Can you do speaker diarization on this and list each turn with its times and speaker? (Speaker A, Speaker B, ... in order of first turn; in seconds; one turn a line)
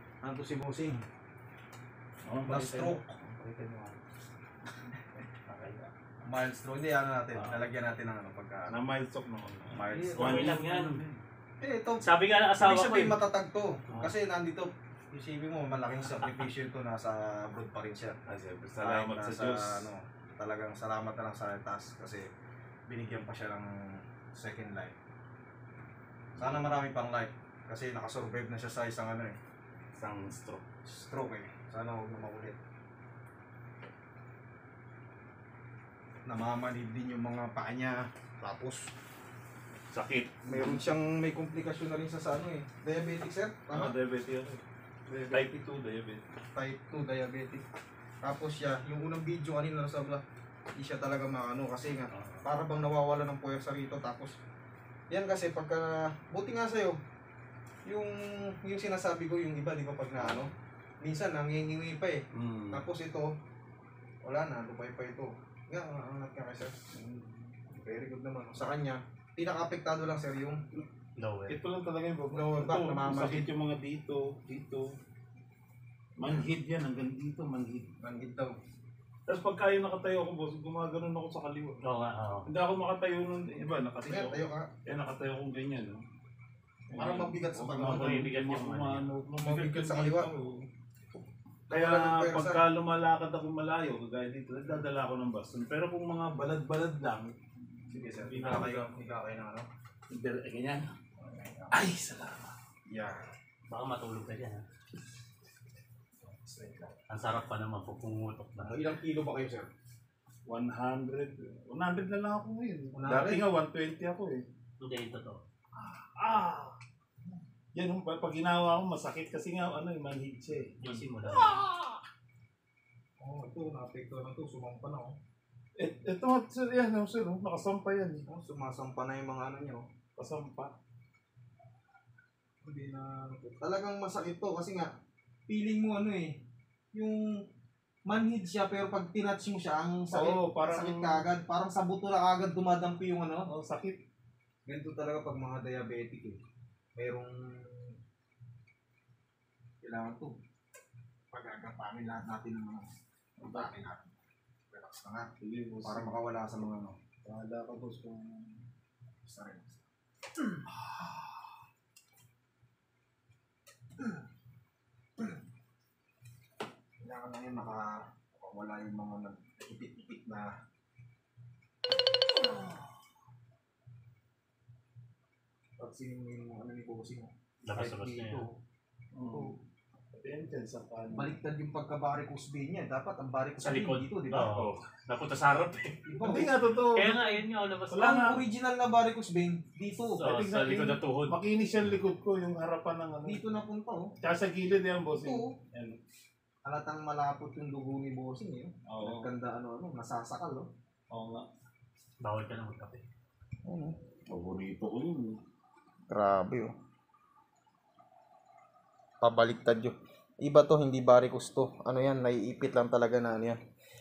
Speaker A: 0.2-1.0
Speaker B: 2.3-3.9
Speaker A: 2.5-3.0
Speaker C: 3.4-3.9
Speaker B: 5.5-5.8
Speaker A: 6.2-8.7
Speaker B: 8.7-11.2
Speaker A: 9.7-10.7
Speaker C: 9.9-11.0
Speaker A: 11.6-18.2
Speaker C: 12.0-13.2
Speaker B: 18.3-19.9
Speaker A: 18.8-22.3
Speaker A: 22.9-24.9
Speaker A: 26.4-29.4
Speaker B: 29.9-30.7
Speaker A: 30.8-32.6
Speaker A: 36.2-38.9
Speaker B: 39.9-40.8
Speaker A: 40.4-43.9
Speaker B: 43.7-44.6
Speaker A: 45.1-45.5
Speaker B: 45.3-46.3
Speaker A: 46.5-47.6
Speaker A: 48.2-50.2
Speaker A: 50.8-54.4
Speaker A: 55.1-57.0
Speaker A: 57.9-63.3
Speaker B: 62.3-62.8
Speaker A: 64.2-67.0
Speaker B: 67.0-67.4
Speaker A: 67.7-70.6
Speaker C: 71.2-71.5
Speaker B: 71.5-74.9
Speaker A: 72.3-73.5
Speaker B: 76.2-77.9
Speaker A: 78.0-78.5
Speaker B: 79.3-81.8
Speaker C: 81.8-82.5
Speaker B: 82.5-86.0
Speaker A: 84.0-84.7
Speaker B: 86.9-90.6
Speaker A: 87.0-88.2
Speaker C: 87.8-89.1
Speaker A: 89.4-90.3
Speaker A: 91.7-92.6
Speaker B: 91.7-97.3
Speaker B: 97.9-98.9
Speaker A: 97.9-99.7
Speaker B: 100.1-100.8
Speaker A: 101.2-101.8
Speaker B: 101.7-102.5
Speaker A: 102.9-103.2
Speaker C: 103.7-104.6
Speaker A: 106.2-106.9
Speaker C: 107.1-108.8
Speaker A: 108.6-109.7
Speaker B: 110.5-114.4
Speaker A: 112.9-113.5
Speaker C: 114.8-115.4
Speaker B: 115.8-116.8
Speaker B: 117.7-122.0
Speaker C: 120.8-121.6
Speaker A: 123.2-125.2
Speaker B: 125.8-128.3
Speaker A: 128.3-129.9
Speaker B: 130.2-130.7
Speaker A: 132.6-134.9
Speaker A: 135.5-136.4
Speaker A: 136.9-137.4
Speaker A: 138.1-143.5
Speaker B: 140.1-141.3
Speaker B: 143.5-144.0
Speaker A: 144.7-146.4
Speaker A: 146.9-147.9
Speaker A: 149.8-150.3
Speaker A: 151.3-152.9
Speaker B: 153.4-153.7
Speaker A: 153.4-154.1
Speaker A: 154.7-155.3
Speaker B: 155.4-156.2
Speaker A: 155.8-157.0
Speaker B: 157.2-158.6
Speaker A: 159.2-159.8
Speaker A: 167.0-170.5
Speaker A: 175.8-178.5
Speaker C: 177.7-178.4
Speaker B: 179.1-179.6
Speaker A: 179.3-179.5
Speaker B: 180.1-181.3
Speaker A: 181.1-184.5
Speaker C: 183.6-186.1
Speaker B: 184.5-184.8
Speaker A: 186.1-186.5
Speaker B: 186.2-187.4
Speaker C: 186.9-188.4
Speaker A: 187.9-190.2
Speaker C: 190.2-191.3
Speaker B: 190.2-193.4
Speaker A: 193.2-194.1
Speaker B: 194.2-196.0
Speaker A: 195.2-195.5
Speaker A: 196.6-200.7
Speaker B: 198.9-199.3
Speaker B: 201.1-201.4
Speaker C: 202.2-203.0
Speaker A: 203.6-204.0
Speaker B: 204.3-205.4
Speaker A: 206.1-206.7
Speaker A: 209.2-213.6